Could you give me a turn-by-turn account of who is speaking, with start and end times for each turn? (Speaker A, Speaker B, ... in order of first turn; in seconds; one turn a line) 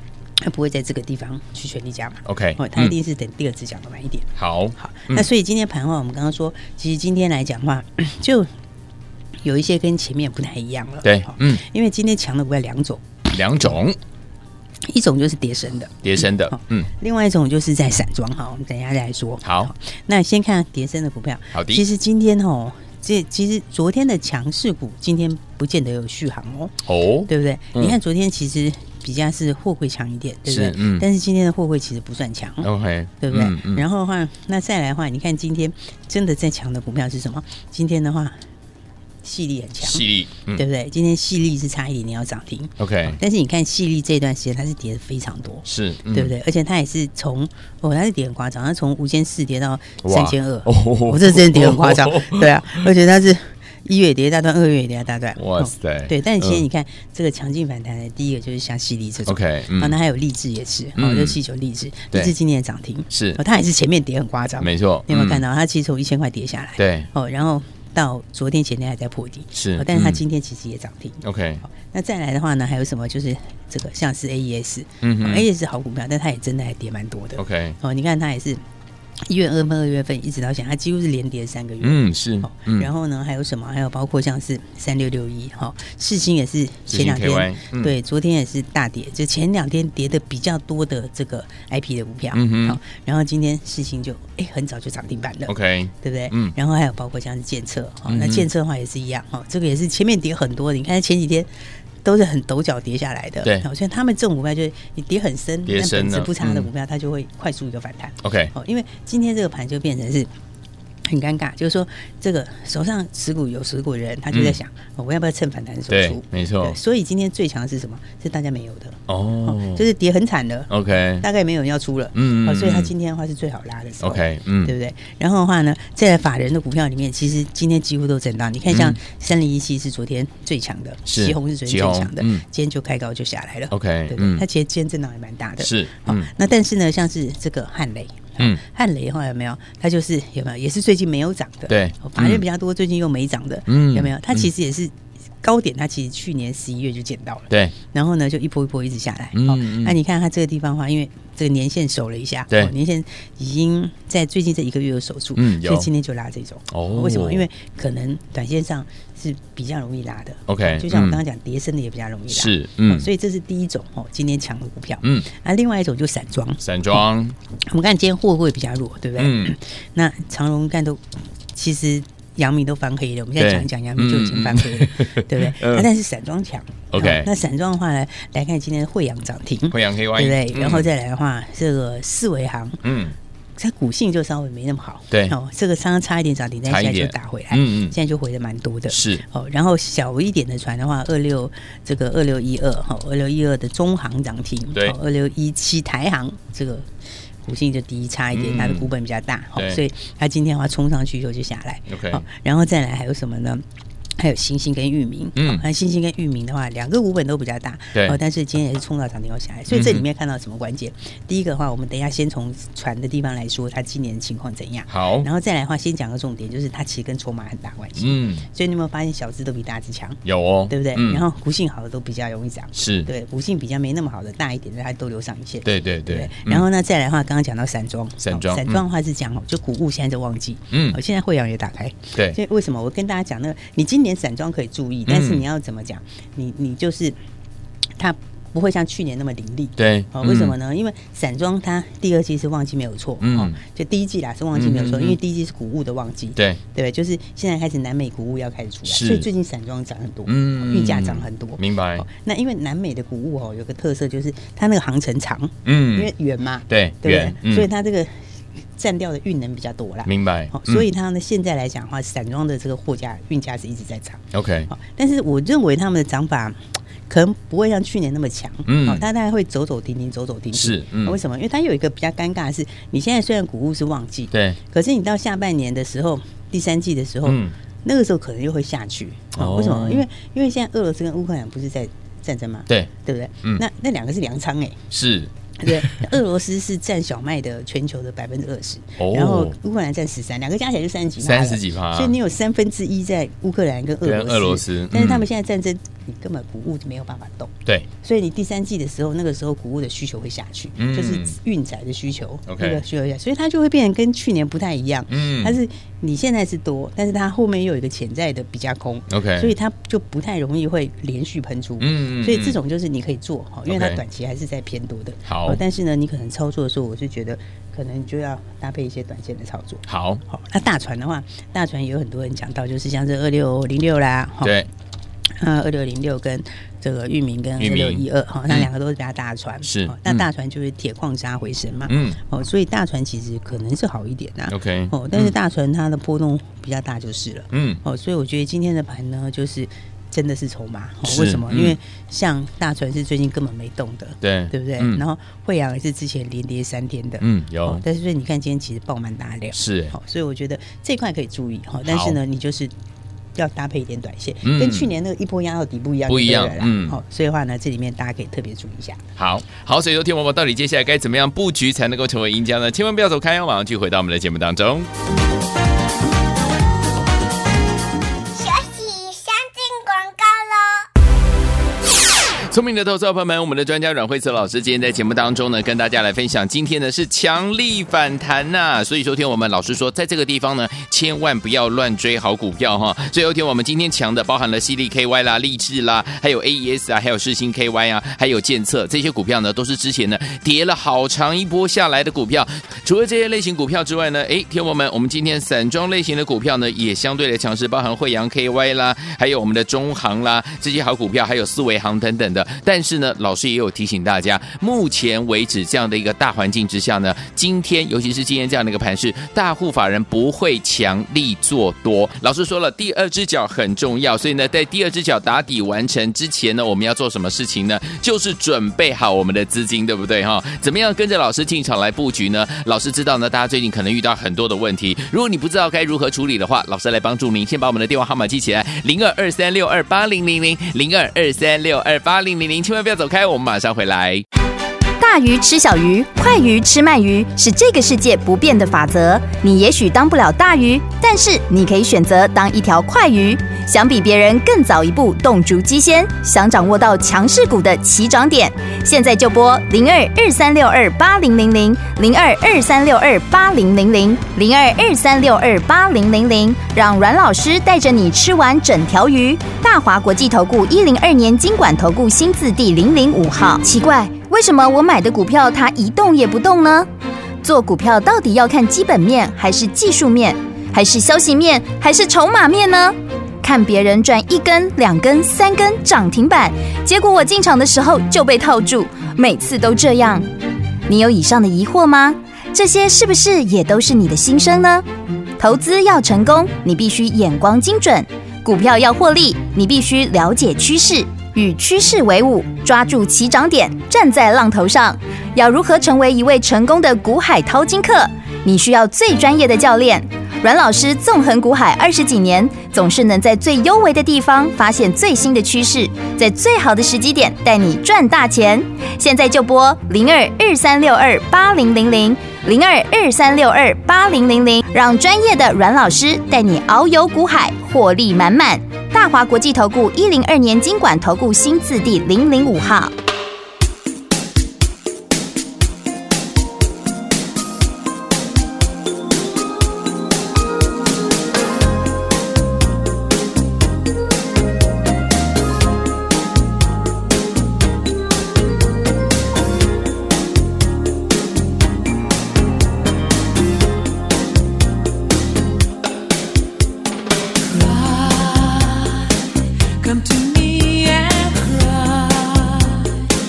Speaker A: 0.4-8.5
Speaker B: 2.2-2.9
Speaker B: 4.3-5.3
Speaker A: 9.4-13.0
Speaker B: 11.0-11.6
Speaker B: 13.3-14.0
Speaker A: 14.9-32.7
Speaker B: 16.0-16.9
Speaker B: 19.4-19.7
Speaker B: 21.5-21.8
Speaker B: 26.9-28.0
Speaker B: 30.4-31.1
Speaker B: 32.6-33.8
Speaker A: 33.2-38.4
Speaker A: 39.2-78.6
Speaker B: 39.8-40.6
Speaker B: 42.8-43.2
Speaker B: 45.6-46.3
Speaker B: 50.0-52.8
Speaker B: 55.4-56.6
Speaker B: 59.2-60.0
Speaker B: 61.0-61.4
Speaker B: 63.1-63.4
Speaker B: 64.6-65.4
Speaker B: 66.8-67.1
Speaker B: 69.5-70.2
Speaker B: 71.2-71.6
Speaker B: 75.0-75.5
Speaker B: 77.4-77.8
Speaker A: 79.3-101.5
Speaker B: 81.8-82.9
Speaker B: 86.9-87.9
Speaker B: 92.3-92.8
Speaker B: 95.5-96.5
Speaker B: 98.1-98.5
Speaker A: 102.0-110.3
Speaker B: 105.7-106.7
Speaker B: 108.2-108.5
Speaker A: 111.1-167.0
Speaker B: 114.3-114.6
Speaker B: 115.9-116.8
Speaker B: 119.1-119.8
Speaker B: 120.7-121.2
Speaker B: 122.1-122.9
Speaker B: 124.0-124.7
Speaker B: 128.7-129.0
Speaker B: 131.1-132.4
Speaker B: 133.7-134.4
Speaker B: 135.6-136.3
Speaker B: 141.7-142.4
Speaker B: 143.7-144.5
Speaker B: 147.5-147.7
Speaker B: 149.3-149.9
Speaker B: 155.3-155.9
Speaker B: 156.7-157.4
Speaker B: 160.5-161.2
Speaker B: 162.3-163.1
Speaker B: 165.0-165.3
Speaker B: 166.6-167.3
Speaker A: 167.7-171.0
Speaker B: 169.2-169.5
Speaker A: 171.5-182.8
Speaker B: 173.4-175.9
Speaker B: 176.9-177.3
Speaker B: 179.7-180.9
Speaker B: 182.8-183.2
Speaker A: 183.6-196.9
Speaker B: 185.1-185.3
Speaker B: 186.7-187.9
Speaker B: 188.9-189.2
Speaker A: 197.4-203.6
Speaker B: 198.3-198.9
Speaker B: 199.6-199.8
Speaker B: 201.9-202.2
Speaker A: 204.2-237.2
Speaker B: 205.3-205.6
Speaker B: 209.7-210.0
Speaker B: 214.9-215.3
Speaker B: 218.0-218.4
Speaker B: 220.2-221.2
Speaker B: 222.7-223.1
Speaker B: 225.6-226.6
Speaker B: 228.2-228.8
Speaker B: 230.7-231.0
Speaker B: 235.1-235.4
Speaker A: 238.0-258.2
Speaker B: 239.8-240.5
Speaker B: 243.2-243.6
Speaker B: 244.5-245.2
Speaker B: 248.8-249.3
Speaker B: 250.2-252.1
Speaker B: 255.6-256.1
Speaker B: 256.7-257.7
Speaker A: 258.8-266.6
Speaker B: 260.0-260.9
Speaker B: 264.3-264.7
Speaker A: 267.1-284.8
Speaker B: 268.6-269.0
Speaker B: 270.5-271.2
Speaker B: 274.3-274.6
Speaker B: 277.2-277.5
Speaker B: 279.4-280.1
Speaker B: 284.9-286.1
Speaker A: 285.6-324.5
Speaker B: 289.0-289.6
Speaker B: 291.2-292.1
Speaker B: 294.0-295.2
Speaker B: 300.8-301.4
Speaker B: 302.5-302.8
Speaker B: 305.1-305.6
Speaker B: 309.1-309.5
Speaker B: 311.8-312.6
Speaker B: 313.7-314.0
Speaker B: 315.3-315.6
Speaker B: 319.9-320.2
Speaker B: 324.4-324.7
Speaker A: 325.4-352.7
Speaker B: 327.6-328.7
Speaker B: 329.6-330.2
Speaker B: 331.9-332.2
Speaker B: 334.5-335.3
Speaker B: 337.5-337.8
Speaker B: 341.0-341.8
Speaker B: 344.2-345.0
Speaker B: 347.2-347.8
Speaker B: 349.5-349.9
Speaker B: 351.9-352.2
Speaker A: 353.3-359.0
Speaker B: 354.4-354.9
Speaker B: 356.1-357.0
Speaker B: 359.2-364.9
Speaker C: 368.3-370.9
Speaker B: 372.5-434.2
Speaker D: 435.0-466.9
Speaker D: 467.4-480.3
Speaker D: 480.9-484.8
Speaker D: 485.4-522.9
Speaker E: 547.5-549.1
Speaker E: 549.8-553.0